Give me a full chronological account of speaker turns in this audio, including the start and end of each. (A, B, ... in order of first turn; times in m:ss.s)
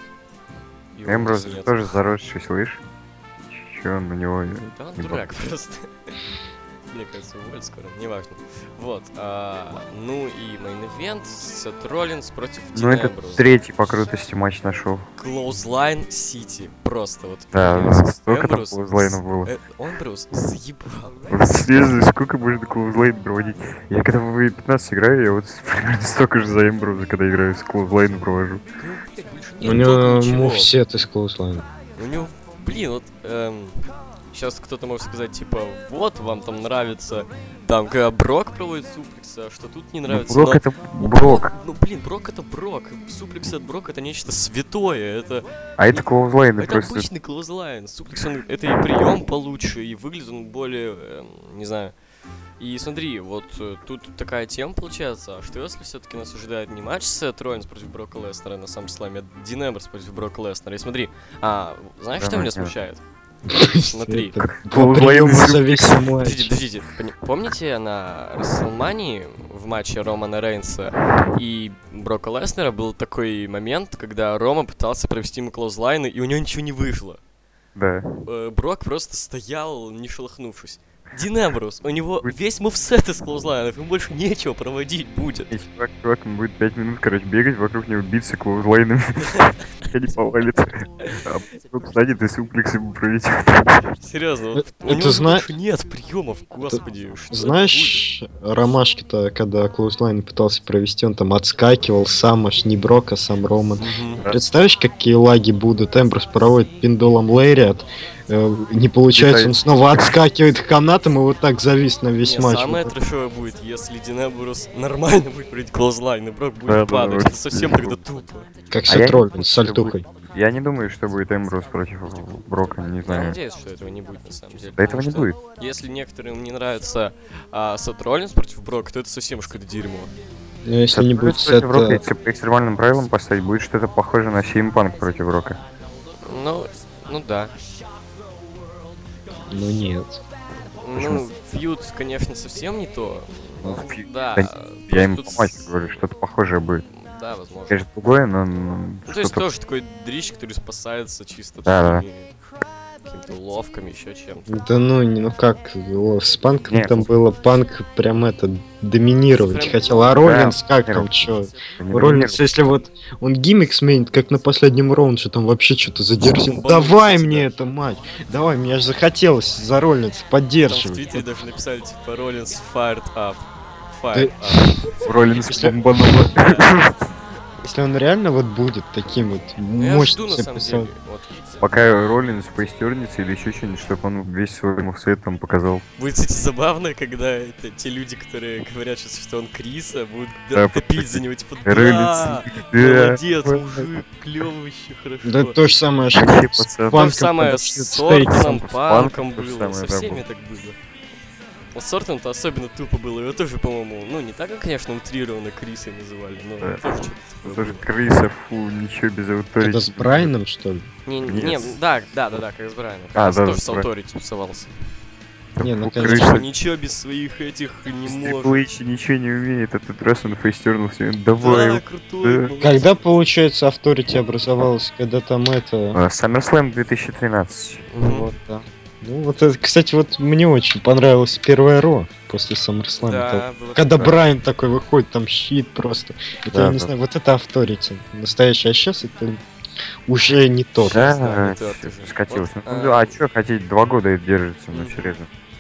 0:00.9-0:02.0 A
0:01.0-0:02.8 B
0:03.5-0:05.3 B
0:04.7-0:05.9 A
0:06.9-0:13.5 A
0:12.7-0:15.1 B
0:15.2-0:21.9 A
0:17.5-0:19.5 B
0:21.3-0:28.6 B
0:28.8-0:30.7 A
0:29.6-0:31.6 C
0:32.0-0:46.0 A
0:40.1-0:41.5 B
0:45.8-0:47.1 B
0:46.6-0:51.9 A
0:52.6-1:03.0 A
1:02.2-1:02.7 B
1:03.5-1:06.5 C
1:03.6-1:04.5 A
1:04.7-1:06.0 B
1:06.2-1:17.2 A
1:17.7-1:18.2 B
1:18.2-1:25.6 A
1:25.5-1:34.0 B
1:34.0-1:38.1 A
1:34.8-1:35.5 C
1:36.6-1:52.9 C
1:43.8-1:44.2 A
1:49.1-1:50.2 B
1:52.2-1:58.5 A
1:56.7-1:58.0 B
1:58.7-2:00.0 C
1:58.9-2:03.4 B
2:03.0-2:10.1 A
2:04.8-2:05.4 B
2:10.6-2:12.0 C
2:10.9-2:15.6 B
2:16.2-2:17.5 A
2:19.5-2:20.2 C
2:20.8-2:26.0 A
2:21.0-2:21.2 B
2:23.6-2:26.8 B
2:26.9-2:27.8 A
2:27.7-2:29.4 B
2:29.0-2:32.3 A
2:31.6-2:32.0 B
2:33.0-2:34.6 A
2:34.5-2:51.2 C
2:36.7-2:37.1 B
2:39.4-2:40.3 A
2:40.2-2:42.4 B
2:46.2-2:47.5 A
2:50.6-2:55.7 A
2:54.1-2:54.7 C
2:55.0-2:57.0 B
2:55.4-2:55.8 C
2:56.3-2:56.8 A
2:57.6-3:00.9 C
2:59.8-3:01.6 A
3:01.6-3:05.8 B
3:06.0-3:15.6 A
3:10.5-3:13.9 B
3:15.2-3:18.6 C
3:16.1-3:17.1 B
3:16.9-3:20.8 A
3:18.6-3:20.2 B
3:21.7-3:27.8 A
3:26.6-3:30.3 B
3:29.6-3:30.9 C
3:31.0-3:34.7 A
3:31.2-3:31.8 B
3:33.1-3:33.9 B
3:35.5-3:36.4 B
3:35.6-3:36.4 C
3:36.0-3:38.6 A
3:38.0-3:42.5 B
3:41.4-3:42.9 A
3:42.6-3:46.0 C
3:45.9-3:47.9 B
3:47.9-3:48.3 A
3:48.0-3:59.4 C
3:53.0-3:54.2 A
3:56.5-3:56.9 B
4:00.1-4:01.0 C
4:00.9-4:03.2 A
4:00.9-4:05.3 B
4:04.7-4:05.2 A